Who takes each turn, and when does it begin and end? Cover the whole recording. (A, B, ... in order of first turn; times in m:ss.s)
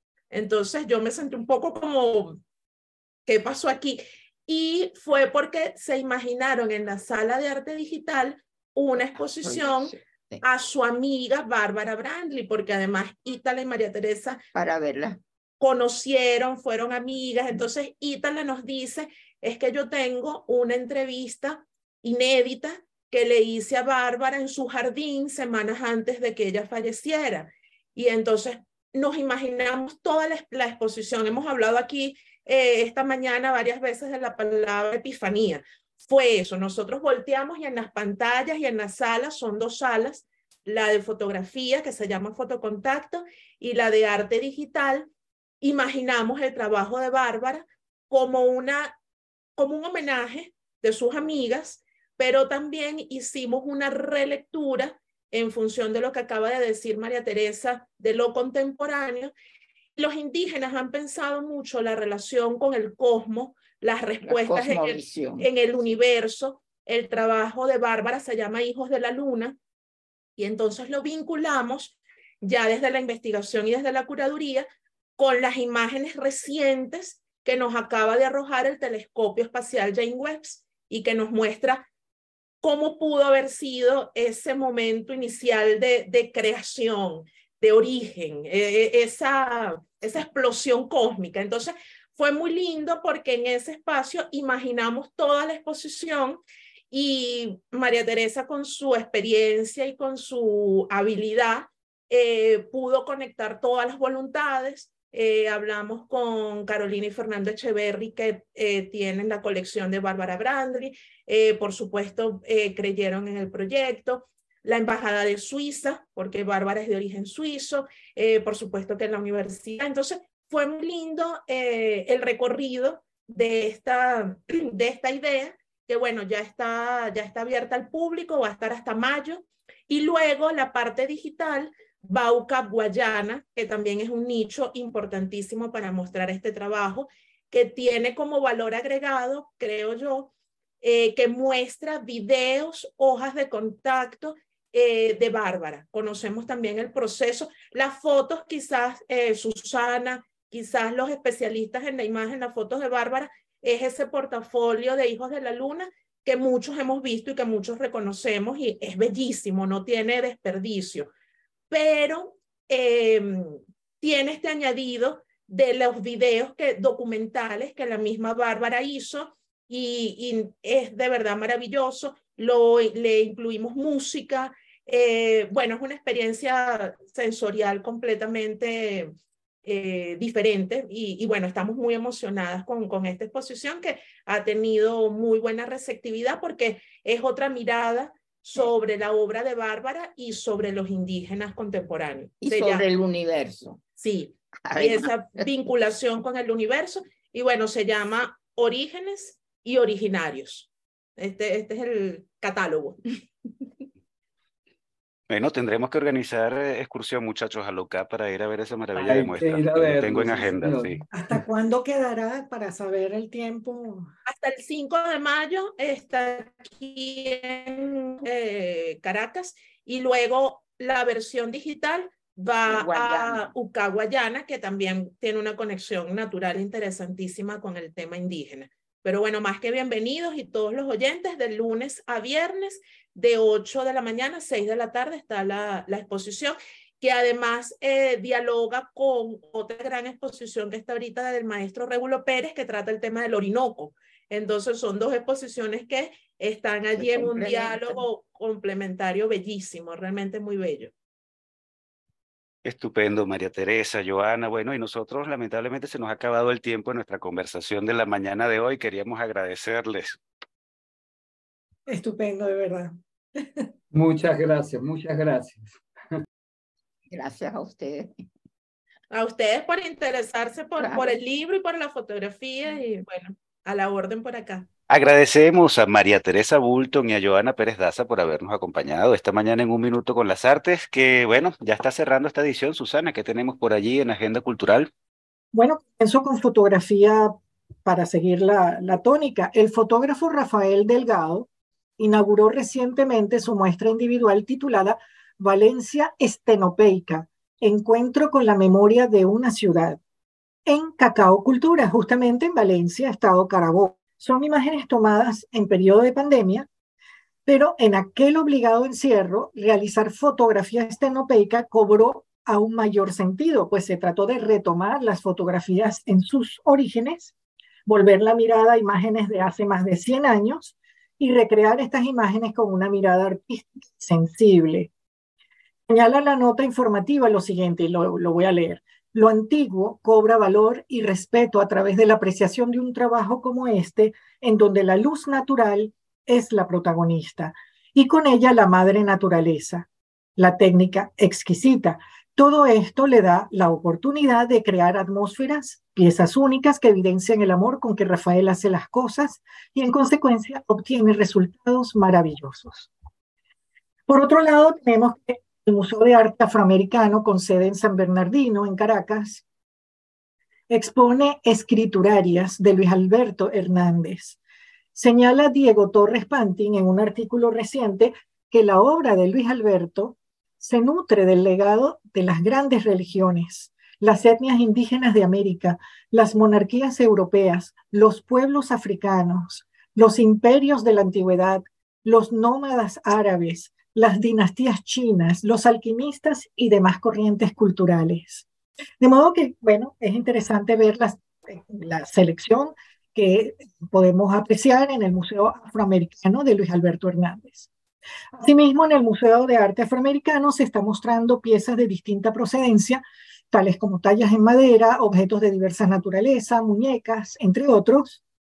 0:00.3-0:02.4 A
0:03.2-0:14.4 A
0:09.4-0:10.4 B
0:14.5-0:15.2 B
0:15.6-0:45.1 A
0:45.6-0:48.9 A
0:49.6-0:59.3 A
1:00.0-1:09.6 A
1:04.2-1:05.5 B
1:10.4-1:14.7 A
1:15.2-1:21.8 A
1:22.6-2:20.3 A
2:20.8-2:41.1 A
2:41.7-3:12.8 A
3:12.4-3:13.8 B
3:14.0-3:23.0 A
3:14.6-3:15.4 B
3:25.3-3:31.0 C
3:29.0-3:31.0 D
3:31.1-3:34.1 E
3:34.3-4:10.9 A
3:42.6-3:43.4 B
4:07.0-4:08.0 B
4:12.6-4:20.2 C
4:21.9-4:23.6 E
4:23.9-4:25.6 D
4:27.1-4:28.2 B
4:29.1-4:34.7 A
4:30.8-4:31.1 B
4:34.9-4:44.9 C
4:45.5-5:00.0 E
5:00.6-5:06.7 E
5:07.4-5:17.3 E
5:17.8-5:24.9 E
5:25.9-5:52.9 E
5:54.1-5:59.4 E
6:00.7-6:04.4 E
6:04.9-6:28.4 E
6:29.0-6:37.7 E
6:38.3-6:48.2 E